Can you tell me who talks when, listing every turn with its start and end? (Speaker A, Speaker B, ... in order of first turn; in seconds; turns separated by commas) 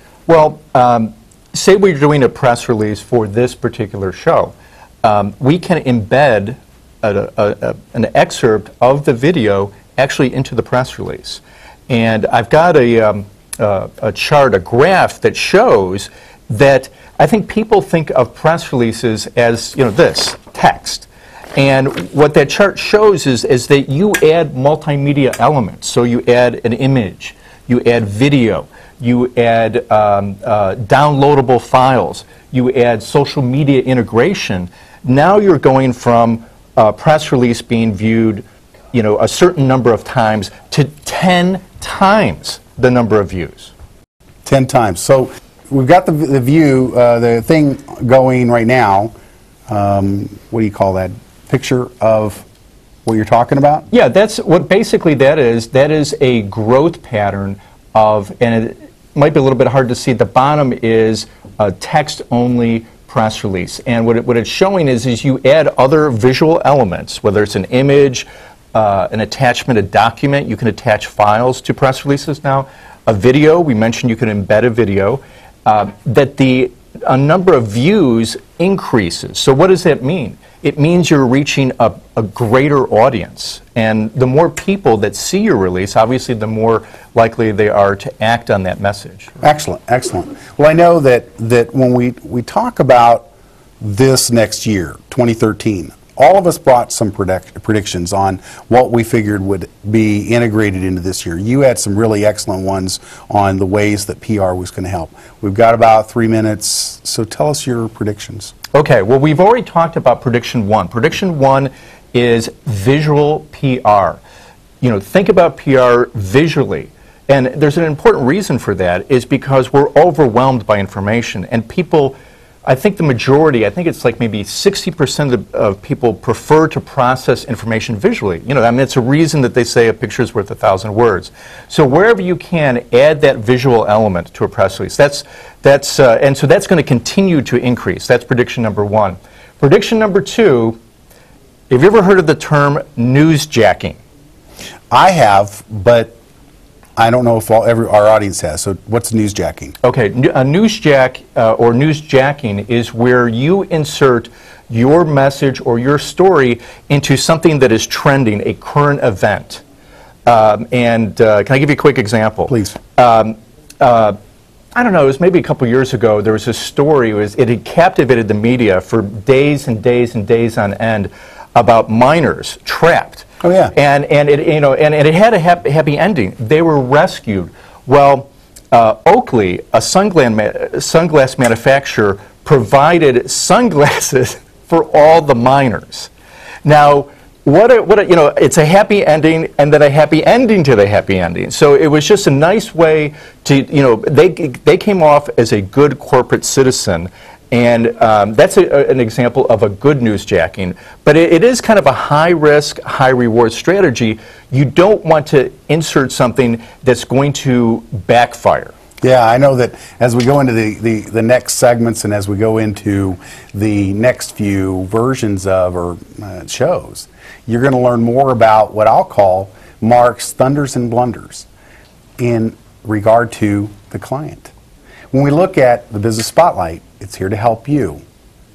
Speaker A: 0.3-43.7, Speaker B: 44.4-49.1, Speaker B: 49.7-52.5, Speaker B: 53.0-53.9, Speaker A: 53.9-89.3, Speaker B: 89.4-93.3, Speaker B: 93.8-108.5, Speaker A: 108.7-114.2, Speaker A: 114.8-140.8, Speaker A: 141.7-144.0, Speaker B: 144.9-146.2, Speaker B: 147.0-149.7, Speaker A: 149.8-159.6, Speaker A: 160.2-164.1, Speaker B: 162.5-162.8, Speaker A: 164.7-186.1, Speaker B: 173.4-173.7, Speaker A: 186.6-208.7, Speaker B: 209.0-221.5, Speaker B: 222.2-224.5, Speaker B: 225.1-228.0